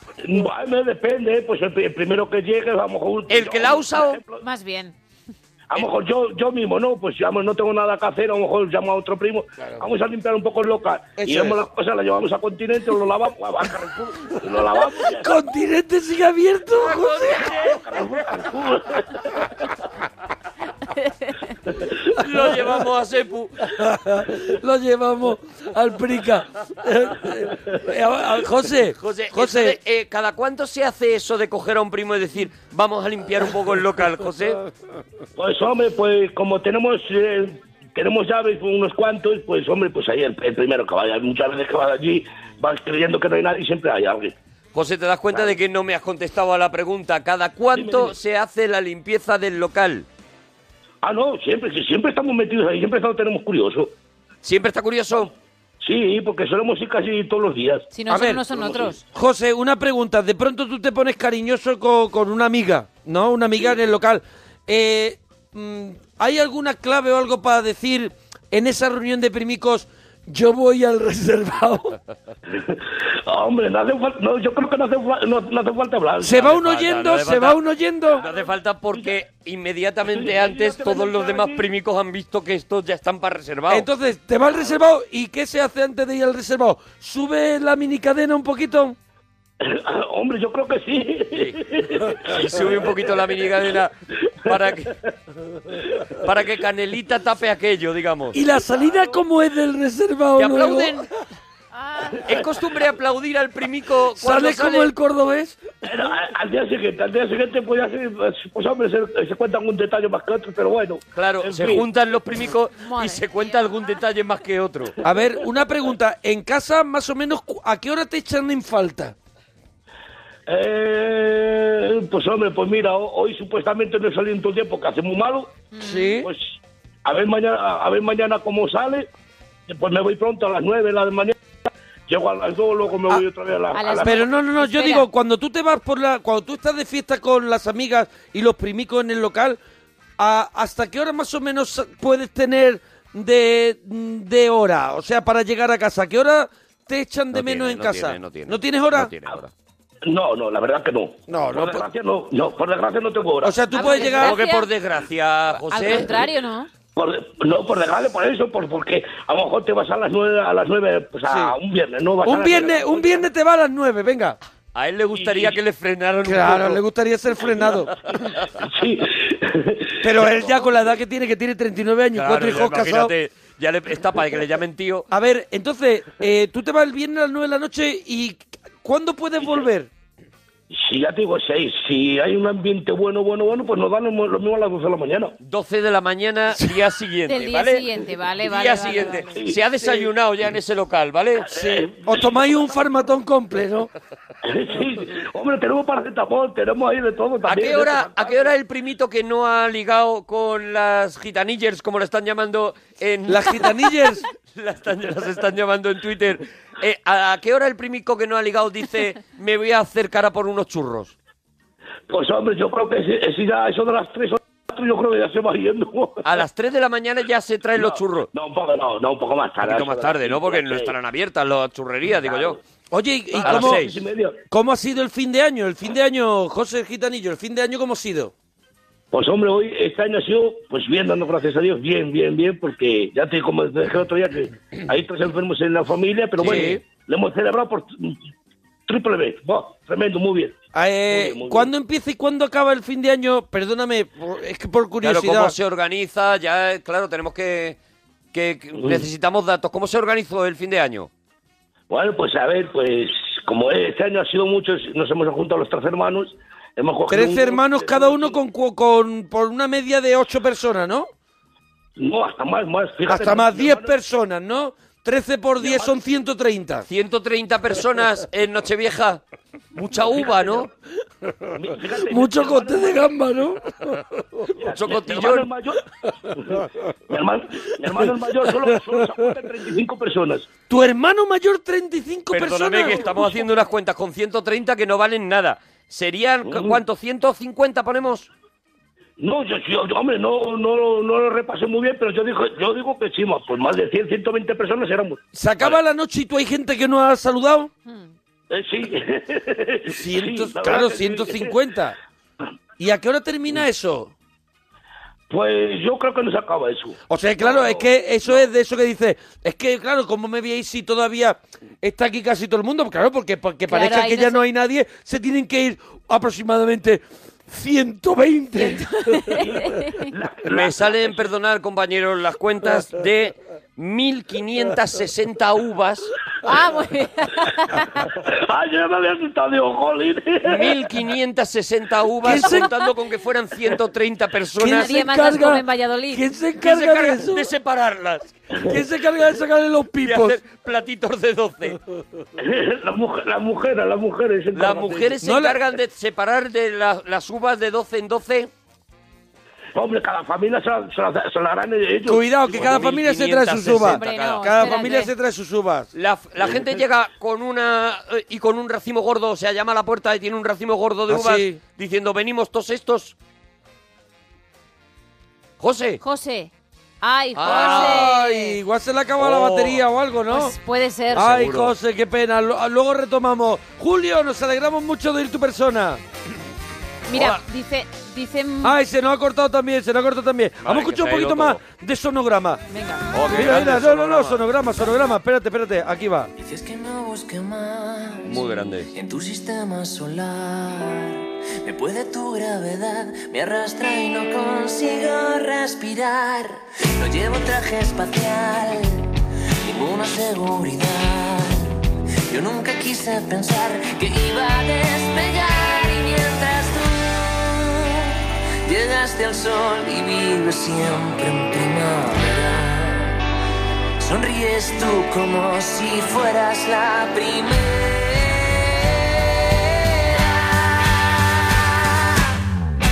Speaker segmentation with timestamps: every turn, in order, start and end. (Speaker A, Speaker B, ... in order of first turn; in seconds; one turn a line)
Speaker A: 0.2-4.4
Speaker B: 3.3-4.2
Speaker C: 4.4-5.0
Speaker A: 5.7-15.3
Speaker D: 11.2-11.6
Speaker D: 15.1-17.7
Speaker B: 16.8-17.9
Speaker A: 17.9-19.2
Speaker C: 21.0-21.3
Speaker B: 22.2-23.7
Speaker D: 23.7-29.8
Speaker B: 29.0-34.6
Speaker A: 35.4-44.4
Speaker B: 44.7-50.1
Speaker A: 47.8-48.1
Speaker A: 51.0-53.9
Speaker B: 54.4-55.3
Speaker A: 55.8-57.9
Speaker C: 57.9-59.0
Speaker D: 58.1-58.4
Speaker A: 58.5-59.0
Speaker D: 59.1-72.0
Speaker A: 72.5-76.5
Speaker D: 76.2-78.2
Speaker B: 76.4-77.6
Speaker B: 78.2-83.9
Speaker A: 78.2-79.2
Speaker A: 80.1-81.7
Speaker D: 83.7-89.0
Speaker A: 89.6-93.5
Speaker B: 91.3-91.6
Speaker B: 92.2-93.9
Speaker B: 94.5-94.9
Speaker B: 96.2-98.4
Speaker D: 98.3-101.1
Speaker B: 100.4-101.1
Speaker C: 101.7-102.3
Speaker B: 102.2-104.9
Speaker D: 104.2-105.6
Speaker A: 105.8-111.9
Speaker B: 111.2-115.0
Speaker C: 112.8-114.0
Speaker D: 115.0-119.2
Speaker A: 120.5-125.5
Speaker C: 125.7-126.2
Speaker D: 125.8-126.3
Speaker A: 126.2-129.1
Speaker A: 129.7-131.4
Speaker A: 132.1-134.2
Speaker C: 133.7-135.1
Speaker D: 134.0-139.6
Speaker D: 140.2-149.1
Speaker B: 147.3-149.5
Speaker A: 150.1-153.6
Speaker D: 151.3-151.9
Speaker D: 153.4-154.4
Speaker C: 153.7-154.7
Speaker B: 154.0-156.1
Speaker C: 155.7-156.7
Speaker A: 157.0-163.1
Speaker D: 161.3-161.6
Speaker D: 162.2-164.4
Speaker B: 164.8-166.8
Speaker A: 165.2-165.6
Speaker D: 166.2-167.9
Speaker B: 168.2-168.5
Speaker A: 168.6-170.5
Speaker D: 170.0-173.1
Speaker B: 172.1-175.1
Speaker D: 175.1-179.9
Speaker A: 179.4-179.7
Speaker A: 180.7-185.4
Speaker B: 185.4-187.9
Speaker C: 187.3-189.4
Speaker B: 188.4-191.5
Speaker A: 189.4-190.1
Speaker A: 191.4-192.4
Speaker D: 191.5-193.9
Speaker A: 194.4-198.5
Speaker B: 197.5-211.2
Speaker D: 203.3-204.2
Speaker A: 212.1-216.2
Speaker B: 216.2-218.3
Speaker A: 217.8-220.9
Speaker B: 219.6-222.6
Speaker A: 222.2-222.6
Speaker D: 222.9-223.8
Speaker A: 223.3-224.4
Speaker B: 223.4-224.0
Speaker D: 224.5-228.3
Speaker A: 229.1-238.2
Speaker B: 236.4-236.8
Speaker D: 236.4-236.8
Speaker A: 238.9-240.6
Speaker D: 240.7-245.6
Speaker A: 241.1-241.7
Speaker B: 245.0-247.8
Speaker B: 248.3-251.1
Speaker A: 251.9-258.4
Speaker D: 257.1-261.1
Speaker A: 262.0-263.9
Speaker D: 263.1-266.9
Speaker A: 265.6-265.9
Speaker B: 266.9-269.2
Speaker B: 269.8-270.7
Speaker A: 270.2-270.7
Speaker A: 271.6-273.1
Speaker D: 271.9-274.0
Speaker A: 274.6-280.5
Speaker B: 274.7-275.5
Speaker D: 280.7-283.1
Speaker B: 282.3-288.3
Speaker A: 283.0-283.4
Speaker A: 286.5-286.8
Speaker A: 289.2-295.2
Speaker D: 295.3-297.7
Speaker C: 297.9-298.1
Speaker A: 298.5-301.6
Speaker D: 299.9-302.0
Speaker D: 302.8-304.1
Speaker A: 305.3-308.5
Speaker D: 307.1-319.4
Speaker C: 313.7-314.4
Speaker C: 318.6-320.1
Speaker A: 319.4-321.2
Speaker B: 320.5-326.1
Speaker C: 326.4-328.1
Speaker A: 328.2-330.8
Speaker B: 330.4-334.9
Speaker D: 332.2-332.8
Speaker D: 334.6-337.5
Speaker C: 334.7-336.2
Speaker B: 336.6-338.4
Speaker D: 338.7-340.4
Speaker B: 340.0-341.8
Speaker A: 342.4-345.2
Speaker B: 344.5-348.5
Speaker D: 345.2-345.6
Speaker A: 349.8-352.7
Speaker D: 352.1-355.9
Speaker B: 352.5-354.7
Speaker C: 353.9-355.1
Speaker B: 355.9-363.1
Speaker A: 356.4-356.7
Speaker D: 361.1-361.6
Speaker B: 365.6-366.0
Speaker C: 366.0-368.6
Speaker B: 367.4-368.1
Speaker D: 367.4-370.6
Speaker B: 369.2-369.8
Speaker C: 370.3-371.3
Speaker D: 371.1-376.0
Speaker B: 371.2-371.8
Speaker C: 377.1-378.8
Speaker D: 377.1-377.4
Speaker D: 378.6-382.6
Speaker B: 380.6-381.6
Speaker C: 382.7-383.1
Speaker B: 383.1-384.4
Speaker D: 383.3-386.3
Speaker E: 386.4-399.1
Speaker B: 388.3-388.9
Speaker E: 399.6-413.2
Speaker E: 414.0-422.2